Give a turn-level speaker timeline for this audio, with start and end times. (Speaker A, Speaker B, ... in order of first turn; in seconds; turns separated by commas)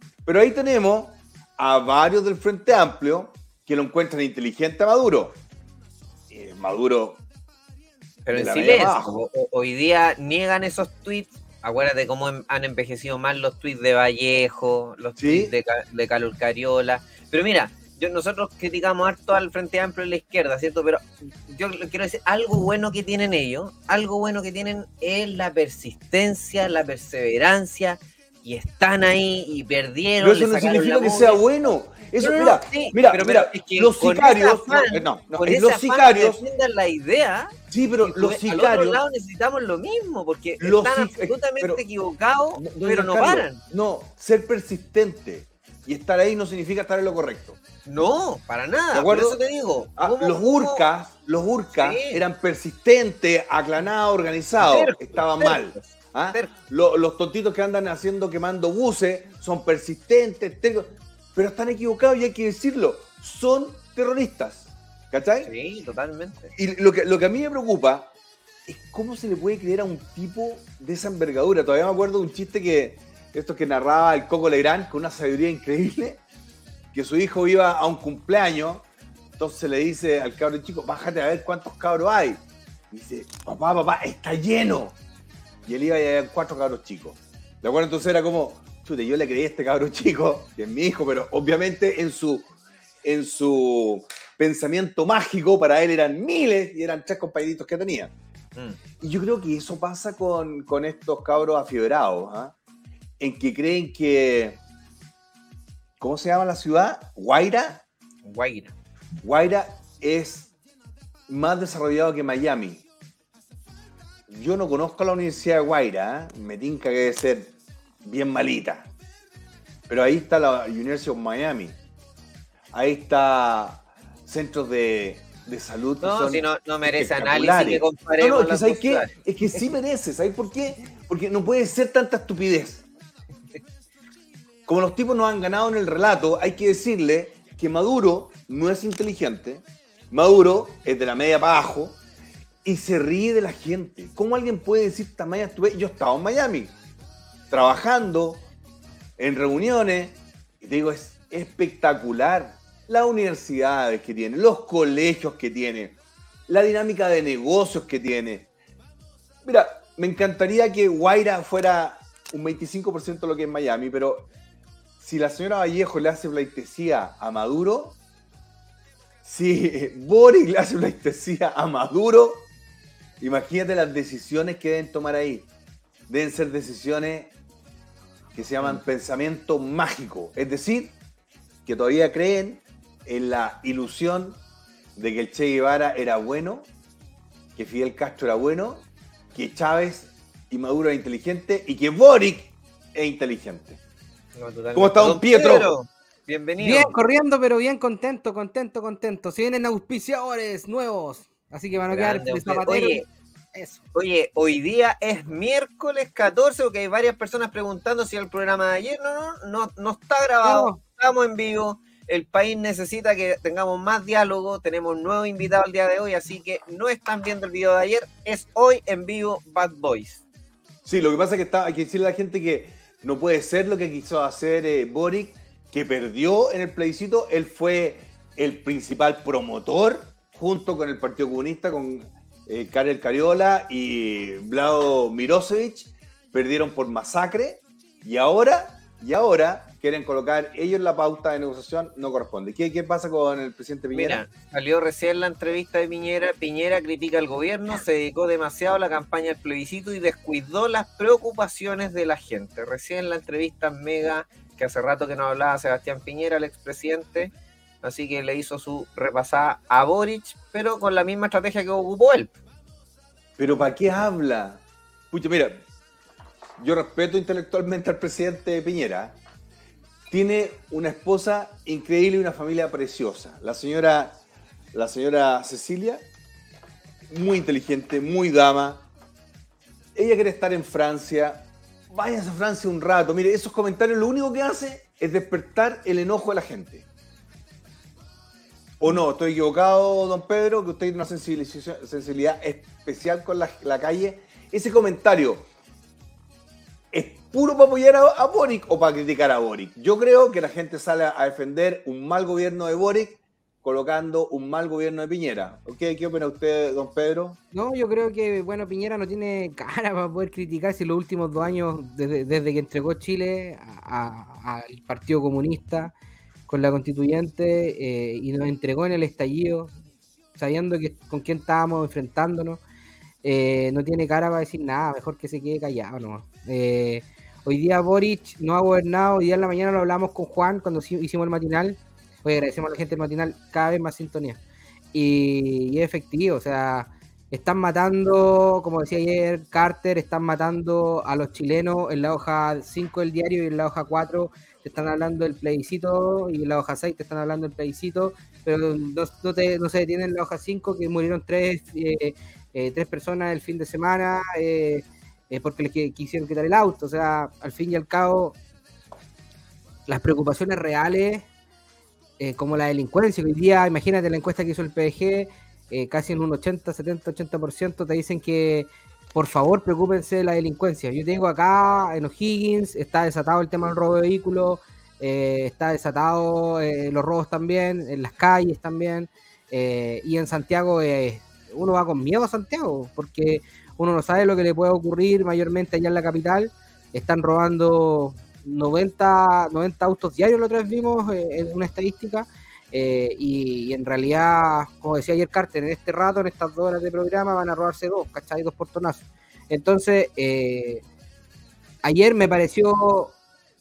Speaker A: 0.2-5.4, Speaker A: 6.3-7.2, Speaker B: 8.3-31.4, Speaker A: 8.3-9.2, Speaker A: 15.2-15.5, Speaker A: 30.2-36.4, Speaker B: 32.2-43.6, Speaker A: 37.7-39.0, Speaker A: 40.6-41.8, Speaker A: 42.6-47.6, Speaker B: 47.9-50.9, Speaker A: 48.9-49.4, Speaker A: 50.0-65.5, Speaker B: 51.7-52.2, Speaker B: 54.6-56.5, Speaker B: 65.4-66.5, Speaker A: 66.6-68.1, Speaker A: 68.7-76.2, Speaker A: 76.9-78.8, Speaker A: 79.4-85.0, Speaker A: 85.7-92.5, Speaker A: 93.0-98.1, Speaker A: 99.0-102.5, Speaker A: 103.2-104.6, Speaker A: 106.0-107.8, Speaker B: 108.2-108.7, Speaker A: 109.2-110.5, Speaker A: 111.3-112.8, Speaker A: 114.3-118.9, Speaker A: 119.9-121.8, Speaker A: 122.7-132.8, Speaker B: 126.0-129.7, Speaker A: 134.7-142.0, Speaker A: 142.6-146.7, Speaker A: 147.5-148.4, Speaker A: 149.2-158.5, Speaker A: 159.4-164.3, Speaker A: 165.0-168.0, Speaker A: 169.2-172.4, Speaker A: 173.2-175.5, Speaker A: 176.1-177.3, Speaker A: 178.3-180.9, Speaker A: 181.7-184.4, Speaker A: 185.0-186.7, Speaker A: 187.6-193.8, Speaker B: 194.4-197.0, Speaker A: 194.7-195.7, Speaker C: 196.6-203.8, Speaker B: 201.9-203.1, Speaker B: 203.9-220.2, Speaker C: 210.4-210.8, Speaker A: 220.8-244.2, Speaker B: 243.9-257.3, Speaker B: 257.8-262.4, Speaker A: 263.4-265.6, Speaker A: 266.6-269.2, Speaker A: 270.1-274.2, Speaker A: 274.7-276.1, Speaker A: 277.1-278.9, Speaker A: 279.9-286.9, Speaker A: 288.8-295.4, Speaker A: 296.9-307.4, Speaker C: 307.5-315.9, Speaker C: 316.5-319.7, Speaker C: 320.4-322.6, Speaker C: 323.2-334.4, Speaker C: 334.9-358.4, Speaker C: 359.9-361.3, Speaker C: 362.2-400.8, Speaker C: 401.8-403.1